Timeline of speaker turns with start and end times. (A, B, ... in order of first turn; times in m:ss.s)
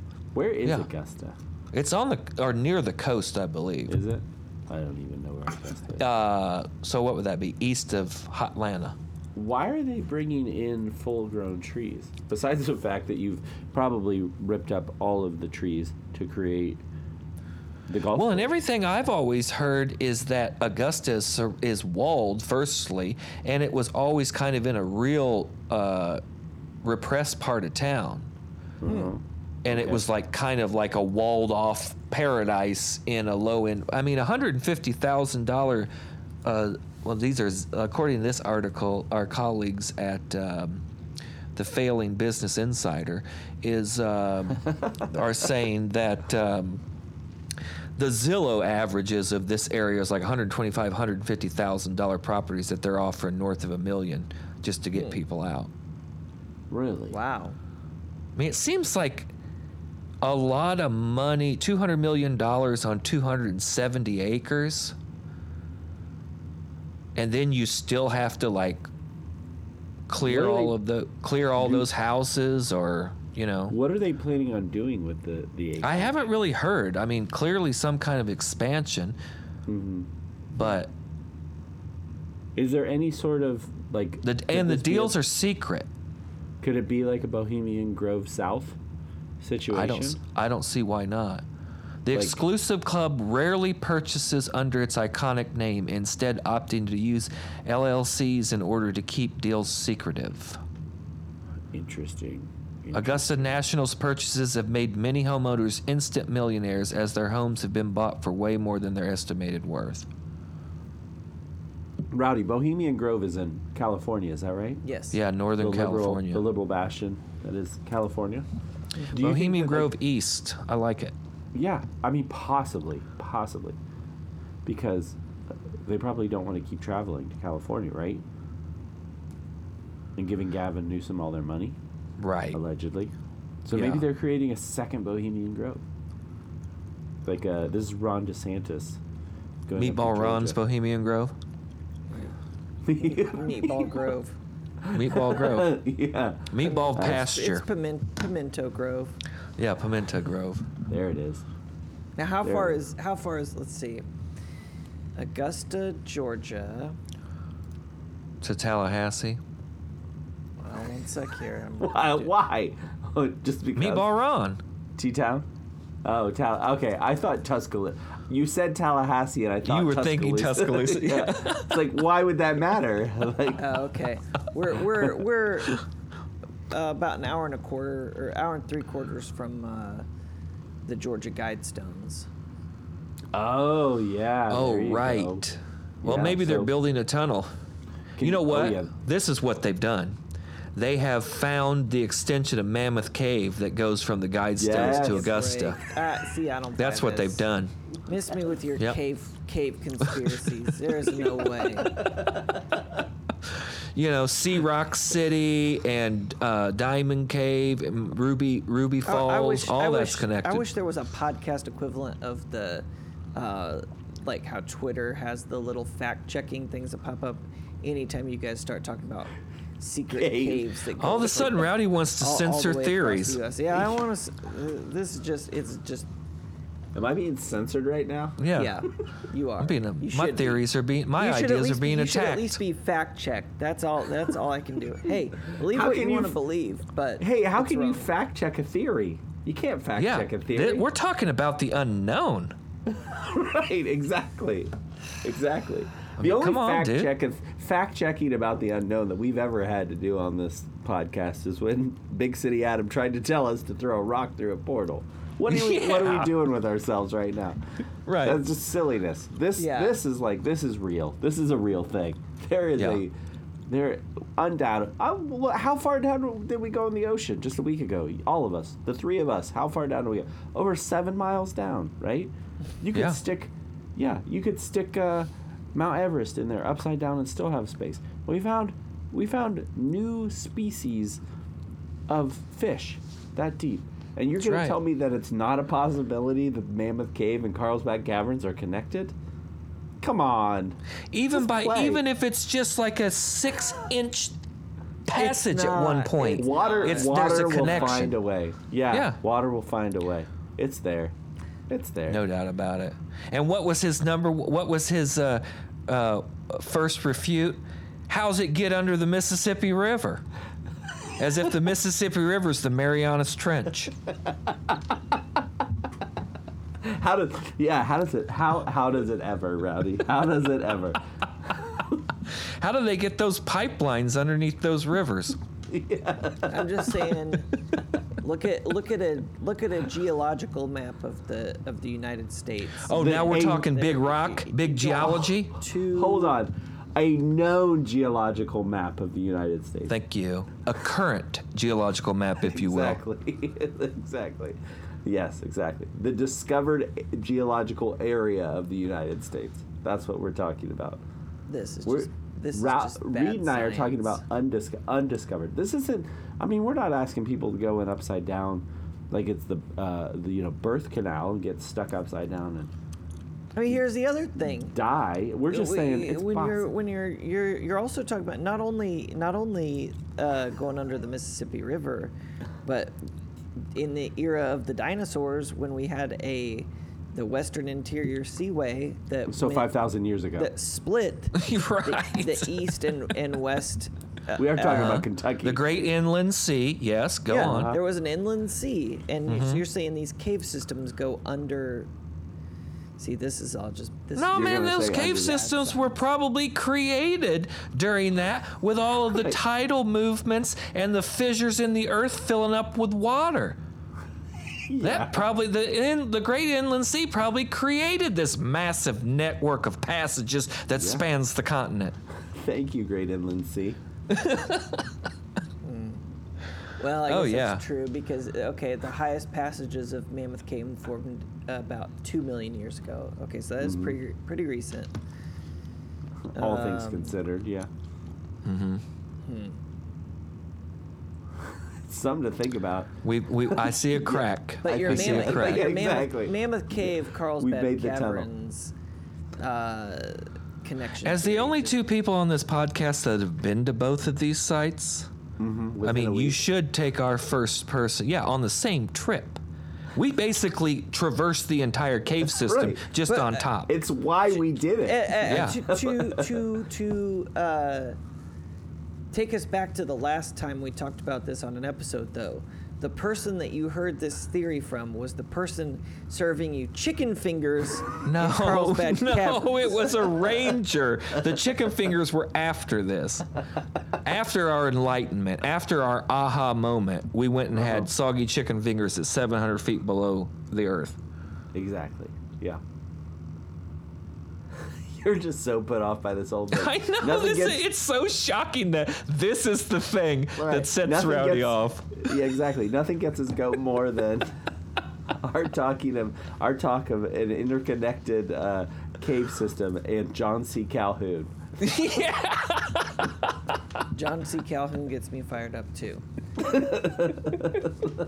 0:00.3-0:01.4 A
0:01.7-0:04.0 B
0:03.9-0:06.1 A
0:06.0-0:09.0 B
0:09.4-0:16.8 A
0:17.9-0:18.5 A
0:18.1-0:26.2 B
0:26.8-0:28.3 B
0:28.8-0:30.0 A
0:28.9-0:29.1 C
0:29.6-0:35.9 B
0:36.4-0:40.8 B
0:41.6-0:46.8 B
0:48.0-0:55.7 B
0:54.9-0:55.2 C
0:56.7-0:57.2 A
0:57.1-0:57.6 C
0:58.4-0:59.3 B
1:00.2-1:05.0 B
1:07.2-1:08.9 B
1:10.1-1:13.8 B
1:10.2-1:10.8 A
1:11.6-1:11.9 A
1:13.7-1:16.3 A
1:15.8-1:19.2 B
1:19.7-1:20.1 A
1:20.5-1:20.9 B
1:22.6-1:25.2 A
1:24.2-1:25.9 B
1:26.6-1:28.8 A
1:29.4-1:30.2 A
1:29.7-1:31.4 B
1:32.0-1:40.6 B
1:32.1-1:32.4 A
1:41.7-1:43.6 A
1:42.9-1:50.1 B
1:52.1-1:54.8 A
1:54.8-1:55.2 C
1:55.1-1:56.5 B
1:55.6-1:58.5 A
1:59.1-1:59.9 A
1:59.1-2:01.1 B
2:01.5-2:03.8 A
2:04.6-2:05.2 A
2:05.8-2:08.2 A
2:10.2-2:11.8 A
2:12.2-2:12.6 B
2:12.5-2:13.1 A
2:13.6-2:15.8 A
2:13.7-2:14.1 B
2:17.2-2:19.0 A
2:19.7-2:20.6 A
2:19.8-2:21.3 B
2:22.9-2:24.1 A
2:23.0-2:24.4 C
2:24.8-2:27.2 A
2:24.9-2:25.8 B
2:26.5-2:27.6 B
2:26.6-2:29.2 C
2:29.6-2:30.7 B
2:30.9-2:31.4 A
2:32.2-2:34.0 C
2:32.4-2:32.8 A
2:35.2-2:37.0 C
2:38.4-2:39.4 B
2:40.6-2:42.3 C
2:41.8-2:44.1 A
2:43.8-2:44.6 B
2:45.0-2:45.5 A
2:46.0-2:53.8 A
2:49.6-2:51.9 B
2:53.6-2:55.8 C
2:56.7-3:00.1 C
3:00.9-3:02.3 C
3:03.3-3:05.4 A
3:04.5-3:07.5 B
3:06.0-3:06.7 A
3:08.2-3:08.9 A
3:08.2-3:10.2 B
3:10.8-3:15.8 B
3:14.6-3:15.3 A
3:14.7-3:17.4 C
3:16.8-3:17.7 B
3:18.1-3:22.1 C
3:20.1-3:20.4 B
3:24.0-3:30.7 B
3:29.1-3:46.1 C
3:40.1-3:40.7 A
3:41.0-3:43.4 B
3:46.9-3:48.4 A
3:48.4-3:48.8 B
3:48.5-3:50.6 C
3:49.6-3:52.6 B
3:51.2-3:58.1 C
3:55.7-3:56.4 A
3:57.2-4:00.9 A
4:00.0-4:02.6 B
4:02.9-4:17.6 A
4:06.2-4:07.1 B
4:15.5-4:16.4 B
4:18.1-4:18.4 B
4:18.2-4:23.1 A
4:19.6-4:20.0 C
4:22.8-4:23.0 B
4:23.7-4:41.2 A
4:32.9-4:33.2 B
4:42.1-4:49.2 A
4:44.4-4:44.8 B
4:50.0-4:50.8 A
4:51.1-4:54.4 B
4:51.3-4:52.0 A
4:55.1-4:58.2 B
4:55.1-4:58.1 C
4:56.3-5:01.2 A
4:58.9-4:59.2 B
5:01.7-5:02.2 A
5:02.1-5:10.2 B
5:11.2-5:13.9 B
5:16.8-5:21.0 A
5:22.6-5:25.4 B
5:25.7-5:27.2 A
5:26.5-5:27.5 C
5:28.2-5:36.4 C
5:32.8-5:35.5 B
5:32.9-5:33.7 A
5:35.9-5:39.9 A
5:39.9-5:43.0 B
5:42.4-5:51.0 A
5:51.5-5:54.2 C
5:51.9-6:02.7 A
6:03.6-6:04.8 C
6:04.7-6:06.7 A
6:05.5-6:12.1 C
6:12.6-6:13.0 C
6:13.8-6:19.8 C
6:19.3-6:20.5 A
6:20.4-6:25.0 C
6:21.4-6:22.7 B
6:24.4-6:25.6 A
6:24.6-6:27.7 B
6:27.3-6:31.9 C
6:27.4-6:27.8 A
6:29.3-6:29.6 B
6:33.0-6:36.0 C
6:34.2-6:43.6 B
6:34.3-6:35.5 A
6:39.1-6:39.4 A
6:44.7-6:45.3 A
6:44.8-6:52.0 B
6:50.8-6:51.0 A
6:52.3-6:53.8 A
6:54.1-6:54.9 B
6:55.6-6:56.1 C
6:56.8-7:04.9 C
6:57.1-6:57.6 B
7:03.6-7:04.0 A
7:06.3-7:07.7 A
7:06.4-7:07.2 C
7:08.4-7:08.8 B
7:09.2-7:09.6 C
7:11.9-7:12.9 A
7:13.0-7:15.8 B
7:13.5-7:18.3 A
7:14.6-7:18.7 C
7:19.4-7:21.8 C
7:21.0-7:25.1 B
7:25.4-7:26.4 A
7:25.8-7:29.4 B
7:30.0-7:33.8 B
7:32.4-7:32.8 A
7:33.1-7:33.5 C
7:33.7-7:36.5 A
7:34.8-7:38.0 C
7:35.3-7:35.6 B
7:39.1-7:50.3 C
7:48.0-7:53.3 B
7:54.0-8:01.0 B
7:57.5-7:57.9 A
8:01.5-8:02.6 A
8:04.9-8:07.6 A
8:06.5-8:12.1 B
8:10.4-8:14.4 A
8:15.1-8:21.3 A
8:21.6-8:23.1 B
8:23.9-8:26.0 C
8:26.4-8:27.6 A